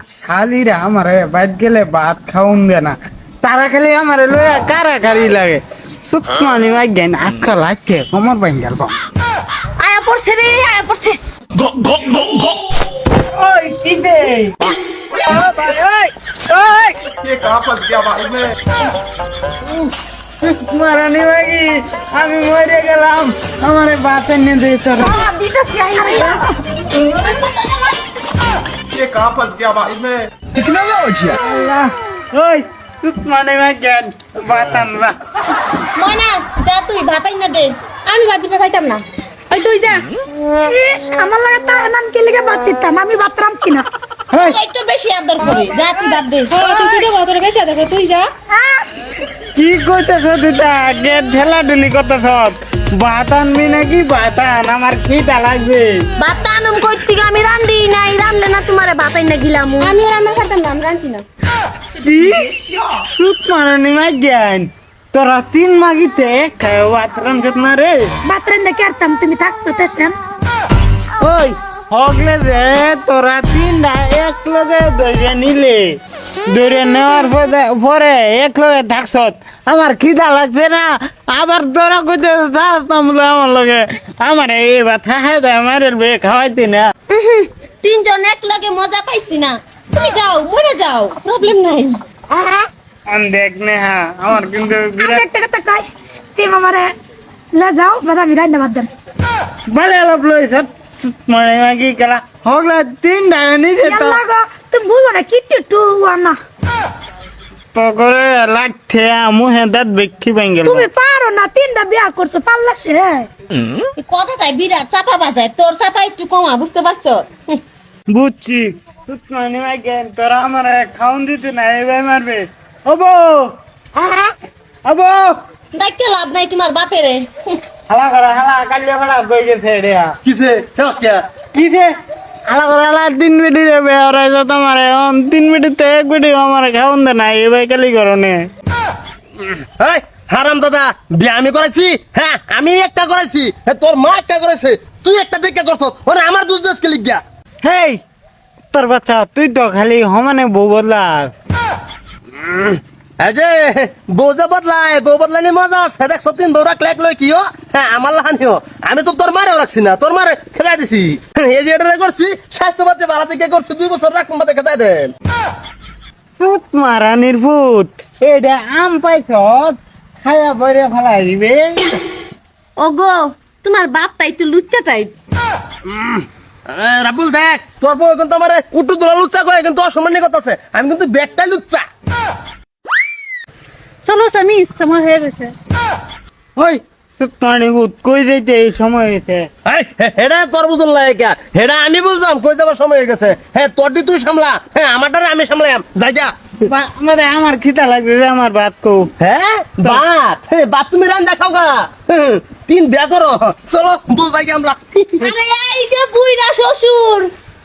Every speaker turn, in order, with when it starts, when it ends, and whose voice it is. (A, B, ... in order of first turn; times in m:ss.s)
0:00.2-0:09.0 A
0:09.8-0:11.2 B
0:11.8-0:12.4 C
0:13.3-0:14.6 A
0:15.3-0:16.9 A
0:17.2-0:18.5 D
0:20.4-0:25.2 A
0:25.0-0:28.0 B
0:26.0-0:26.3 E
0:29.0-0:30.3 D
0:30.6-0:31.3 C
0:31.4-0:35.2 A
0:36.0-0:37.7 B
0:38.1-0:40.1 F
0:40.6-0:43.8 E
0:44.3-0:44.6 A
0:44.3-0:46.6 B
0:46.5-0:48.3 F
0:48.5-0:48.8 E
0:49.5-0:56.0 A
0:56.2-1:00.0 B
0:59.8-1:01.2 F
1:02.0-1:02.5 A
1:03.0-1:08.1 A
1:08.2-1:10.2 E
1:11.2-1:26.9 A
1:27.1-1:32.0 B
1:32.3-1:32.7 E
1:33.1-1:35.2 A
1:35.0-1:35.8 E
1:36.4-1:36.9 E
1:37.5-1:38.9 E
1:39.7-1:44.2 A
1:43.8-1:46.4 E
1:47.7-1:50.9 A
1:50.6-1:53.3 E
1:54.0-1:57.6 B
1:58.1-2:03.5 A
2:04.0-2:04.3 B
2:04.8-2:05.4 A
2:05.7-2:07.3 B
2:07.9-2:10.2 A
2:10.2-2:11.2 C
2:11.5-2:11.9 A
2:12.5-2:18.5 A
2:19.8-2:27.2 C
2:27.6-2:28.0 A
2:28.7-2:31.3 A
2:33.2-2:45.1 C
2:46.4-2:51.8 A
2:52.8-2:55.2 B
2:56.7-3:01.8 C
3:04.0-3:05.5 F
3:06.6-3:09.5 A
3:09.6-3:16.3 C
3:16.7-3:19.1 A
3:19.2-3:25.3 C
3:25.2-3:27.3 B